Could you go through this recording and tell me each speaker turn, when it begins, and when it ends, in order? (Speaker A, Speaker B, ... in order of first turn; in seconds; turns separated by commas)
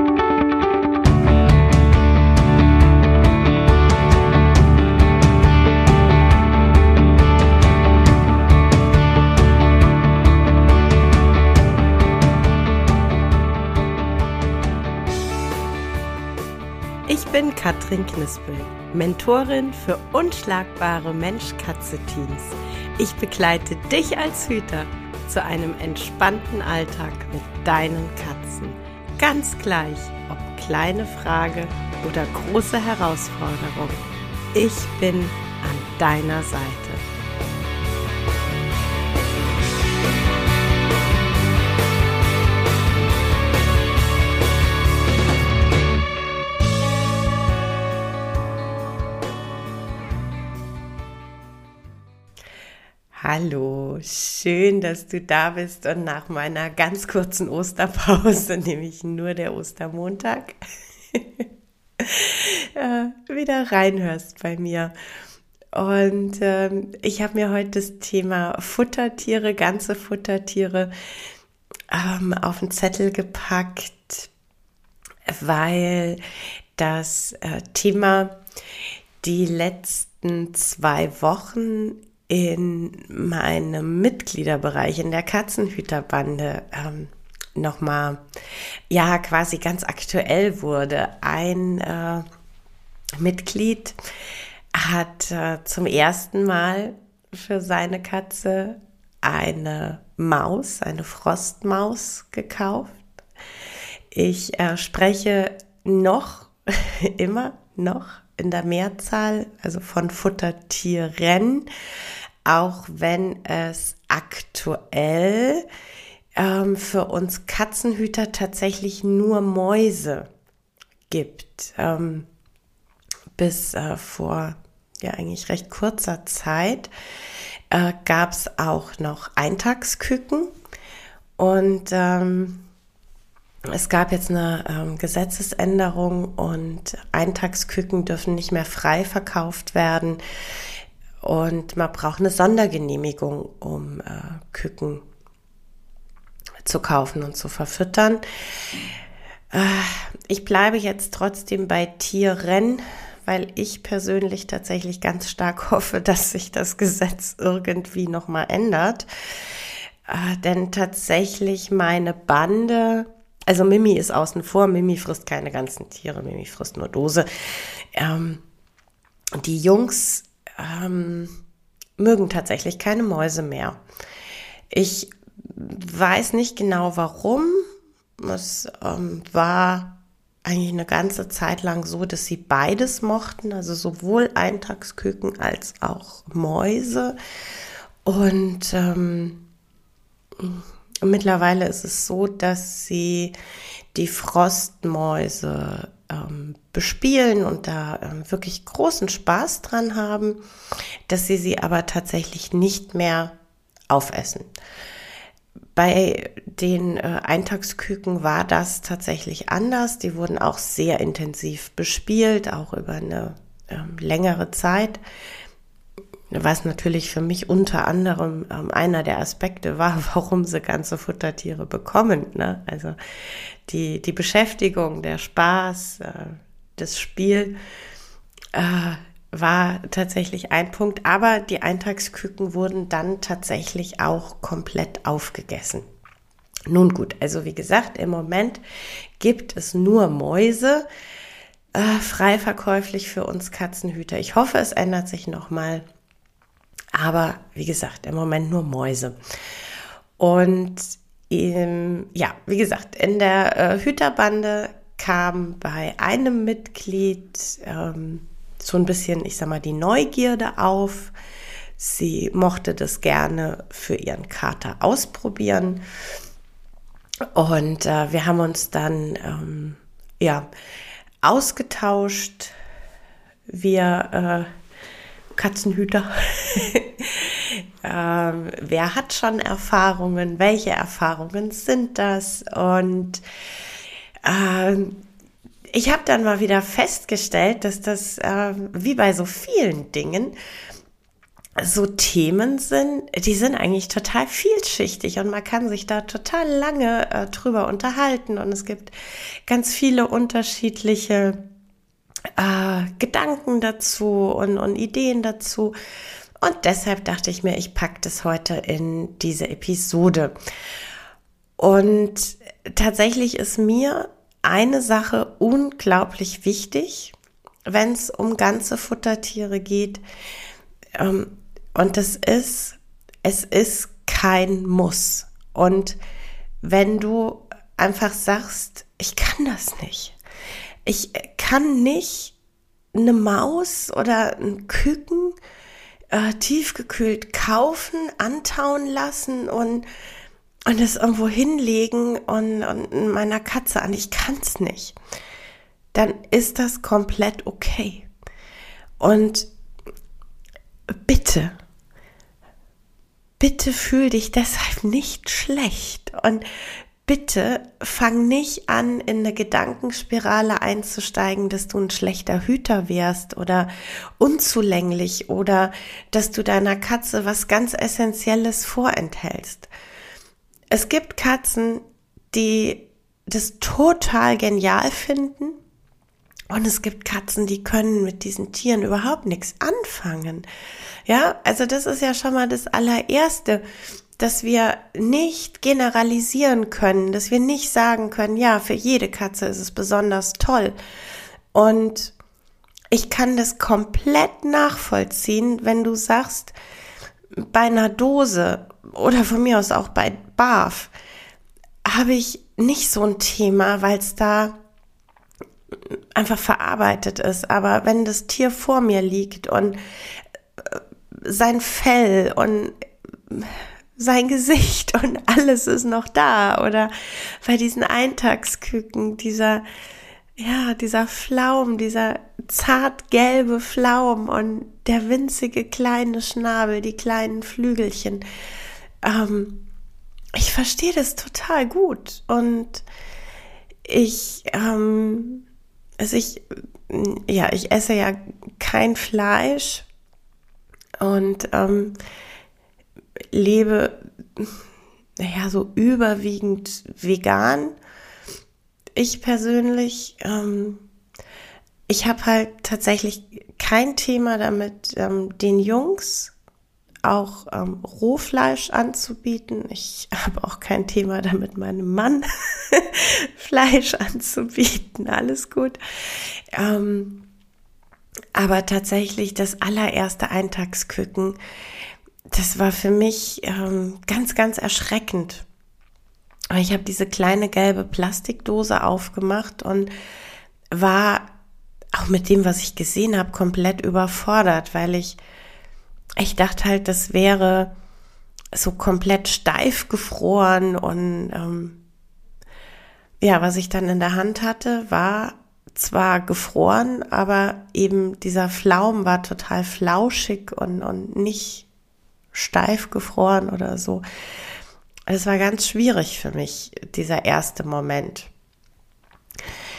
Speaker A: 17.1-34.0, Speaker A: 34.5-37.0, Speaker A: 53.1-60.6, Speaker A: 61.1-61.5, Speaker A: 62.0-64.9, Speaker A: 65.7-70.9, Speaker A: 71.9-74.3, Speaker A: 75.3-76.2, Speaker A: 76.8-78.4, Speaker A: 79.2-88.2, Speaker A: 88.9-92.3, Speaker A: 93.2-94.0, Speaker A: 94.7-103.0, Speaker A: 104.1-111.7, Speaker A: 112.5-115.7, Speaker A: 116.4-120.3, Speaker A: 121.1-122.3, Speaker A: 123.4-126.9, Speaker A: 127.7-130.5, Speaker A: 131.4-132.6, Speaker A: 133.7-140.2, Speaker A: 141.2-145.0, Speaker A: 146.7-148.8, Speaker A: 149.5-168.4, Speaker A: 169.4-171.4, Speaker A: 172.0-173.8, Speaker A: 174.7-177.6, Speaker A: 178.2-187.2, Speaker A: 188.1-189.4, Speaker A: 190.4-193.3, Speaker A: 193.9-200.4, Speaker A: 201.1-203.4, Speaker A: 203.9-204.5, Speaker A: 205.8-215.0, Speaker A: 216.3-223.0, Speaker A: 223.7-227.6, Speaker A: 228.5-235.8, Speaker A: 236.7-238.6, Speaker A: 239.2-240.9, Speaker A: 241.8-245.8, Speaker A: 246.9-249.2, Speaker A: 250.2-261.1, Speaker A: 261.8-265.8, Speaker A: 267.4-270.5, Speaker A: 271.2-272.5, Speaker A: 273.5-274.5, Speaker A: 275.4-283.2, Speaker A: 284.2-285.0, Speaker A: 285.7-290.3, Speaker A: 291.6-298.9, Speaker A: 299.5-301.4, Speaker A: 302.4-305.8, Speaker A: 306.4-310.3, Speaker A: 311.6-317.1, Speaker A: 317.7-320.0, Speaker A: 321.0-326.0, Speaker A: 326.6-330.2, Speaker A: 330.9-332.4, Speaker A: 332.9-335.4, Speaker A: 336.1-339.9, Speaker A: 340.7-345.0, Speaker A: 345.9-348.1, Speaker A: 349.0-349.5, Speaker A: 351.1-351.6, Speaker A: 353.4-356.4, Speaker A: 357.1-369.7, Speaker A: 370.7-375.6, Speaker A: 376.5-380.5, Speaker A: 381.1-383.6, Speaker A: 384.2-390.8, Speaker A: 391.5-392.1, Speaker A: 392.9-396.6, Speaker A: 397.4-400.9, Speaker A: 401.9-404.6, Speaker A: 406.1-409.8, Speaker A: 410.6-412.7, Speaker A: 413.3-419.6, Speaker A: 420.4-428.2, Speaker A: 429.0-429.7, Speaker A: 430.4-432.9, Speaker A: 433.9-435.4, Speaker A: 436.0-439.9, Speaker A: 441.0-442.0, Speaker A: 443.3-444.6, Speaker A: 445.2-447.8, Speaker A: 449.0-450.8, Speaker A: 451.9-456.3, Speaker A: 457.1-467.2, Speaker A: 468.3-471.4, Speaker A: 472.3-475.5, Speaker A: 476.5-479.9, Speaker A: 480.7-481.3, Speaker A: 481.9-485.2, Speaker A: 486.2-487.7, Speaker A: 488.5-491.8, Speaker A: 493.2-501.7, Speaker A: 502.3-504.0, Speaker A: 505.1-508.3